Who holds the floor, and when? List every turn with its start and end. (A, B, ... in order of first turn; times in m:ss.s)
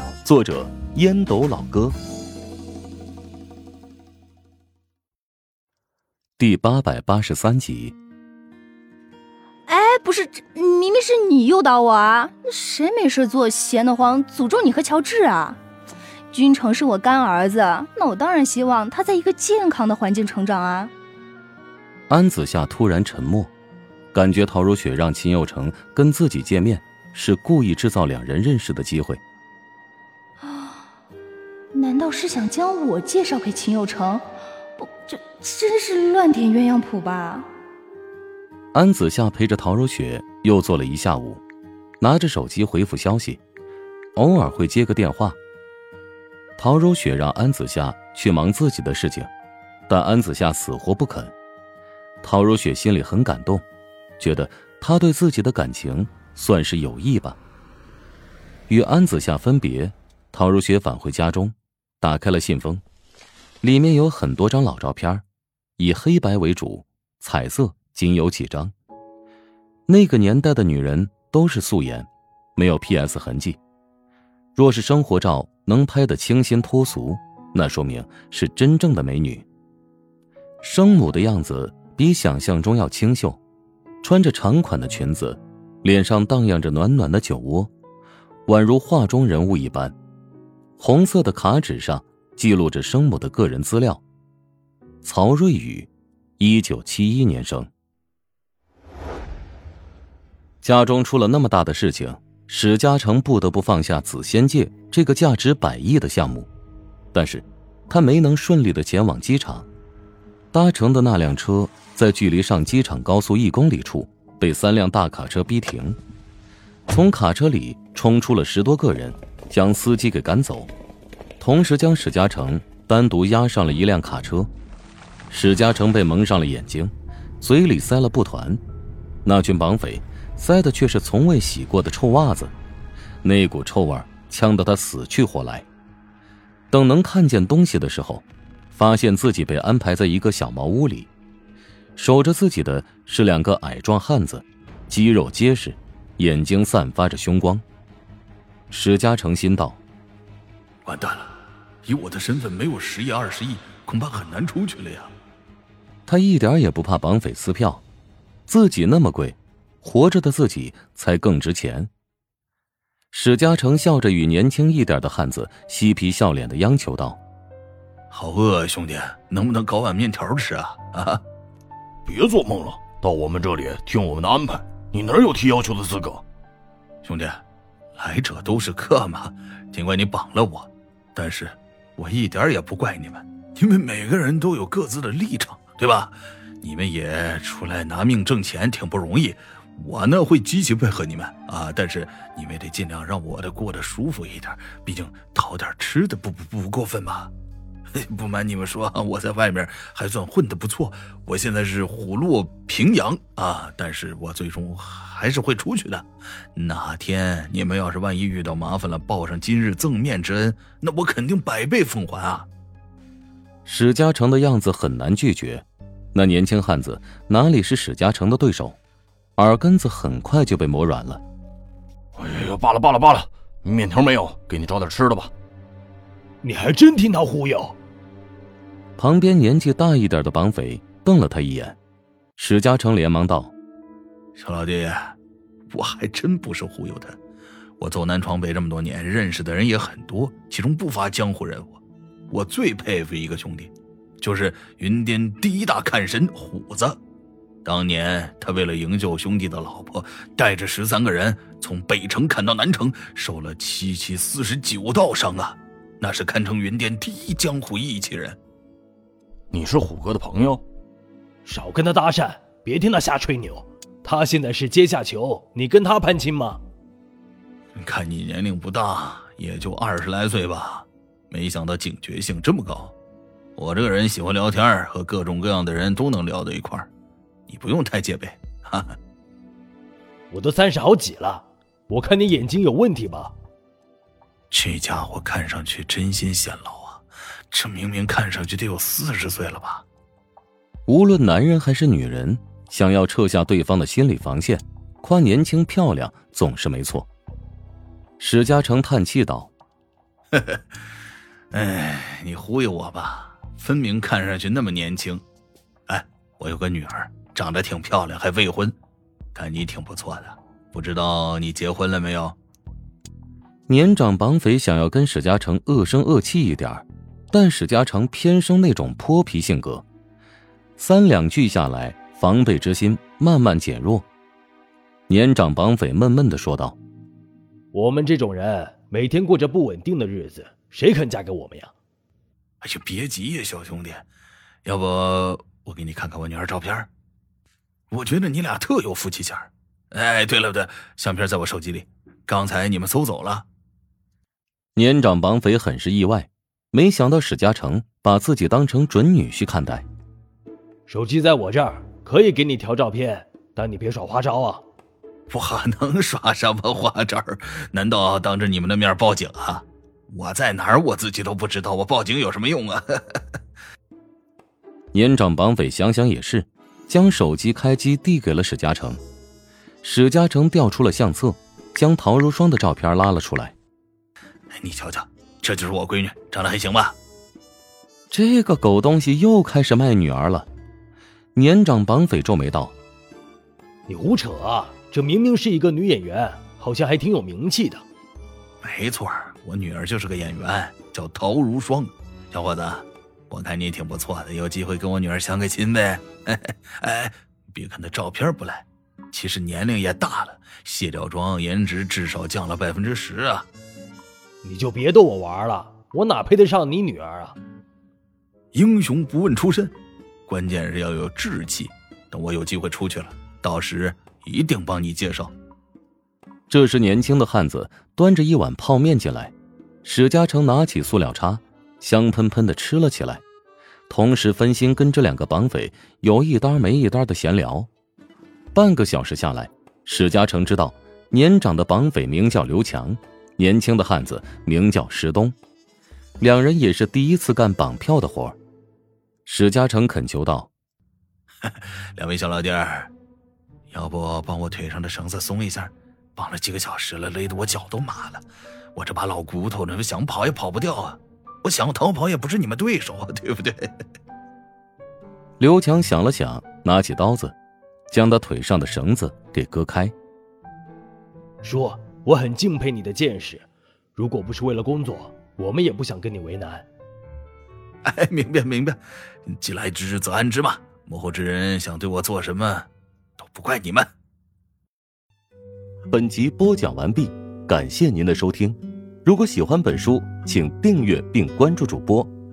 0:00.2-0:02.0 A
0:06.4-0:08.0 A
0:09.7-0:15.6 B
0:16.3-0:20.9 B
0:22.1-0:23.5 A
0:24.1-0:29.2 A
0:30.4-0:30.7 B
0:31.7-0:34.2 B
0:34.8-0:37.5 B
0:38.7-0:41.4 A
0:42.0-0:43.4 A
0:44.2-0:45.4 A
0:46.6-0:49.3 A
0:49.9-0:51.3 A
0:52.2-0:53.6 A
0:54.2-0:57.4 A
0:58.7-1:02.8 A
1:03.6-1:05.2 A
1:05.8-1:08.7 A
1:09.9-1:13.6 A
1:14.6-1:19.4 A
1:20.6-1:23.4 A
1:24.0-1:27.7 A
1:28.5-1:29.9 A
1:30.8-1:34.0 A
1:35.0-1:37.7 A
1:40.6-1:46.5 A
1:47.1-1:49.7 A
1:50.5-1:56.0 A
1:56.9-2:00.7 A
2:01.4-2:04.5 A
2:05.3-2:08.6 A
2:09.2-2:12.5 A
2:13.2-2:15.7 A
2:16.7-2:21.1 A
2:22.0-2:27.6 A
2:28.7-2:29.8 A
2:30.8-2:31.3 C
2:31.9-2:35.1 C
2:36.1-2:37.8 A
2:38.5-2:41.9 A
2:43.1-2:47.2 A
2:48.1-2:51.2 C
2:52.0-2:56.2 D
2:57.0-2:57.4 C
2:58.0-3:17.3 C
3:17.9-3:32.5 C
3:33.6-3:38.8 A
3:39.4-3:41.2 A
3:42.2-3:45.3 D
3:46.4-3:47.8 E
3:49.0-3:51.8 A
3:52.4-3:53.5 A
3:54.4-3:55.2 C
3:55.7-3:57.2 C
3:57.8-4:07.0 C
4:07.6-4:18.4 C
4:19.5-4:20.6 D
4:21.4-4:26.6 E
4:27.8-4:33.0 C
4:33.6-4:36.9 C
4:37.5-4:39.0 C
4:40.3-4:43.4 E
4:44.5-4:49.8 C
4:50.9-4:57.1 A
4:58.2-4:59.5 A
5:01.5-5:05.2 C
5:05.9-5:08.8 C
5:09.4-5:12.4 C
5:13.7-5:19.8 A
5:20.8-5:24.1 A
5:25.1-5:26.8 A
5:27.7-5:31.7 E
5:32.6-5:34.1 C
5:34.6-5:36.9 C
5:37.9-5:43.4 C
5:44.8-5:49.8 A
5:50.9-5:54.6 E
5:55.3-6:03.2 C
6:04.9-6:09.0 A
6:09.8-6:13.6 A
6:14.5-6:17.0 C
6:18.1-6:20.5 A
6:21.4-6:22.7 A
6:23.9-6:27.8 E
6:28.6-6:43.5 C
6:44.4-6:47.4 E
6:48.5-6:49.7 C
6:50.3-6:55.3 C
6:56.5-6:59.3 A
6:59.8-7:03.2 A
7:03.9-7:07.7 A
7:08.5-7:15.4 A
7:16.2-7:18.4 A
7:19.3-7:20.5 A
7:21.4-7:22.9 C
7:23.7-7:28.2 C
7:28.8-7:33.7 C
7:35.4-7:37.4 A
7:37.9-7:39.9 A
7:41.4-7:46.6 E
7:47.9-7:52.7 C
7:53.2-7:53.9 C
7:55.9-8:02.1 A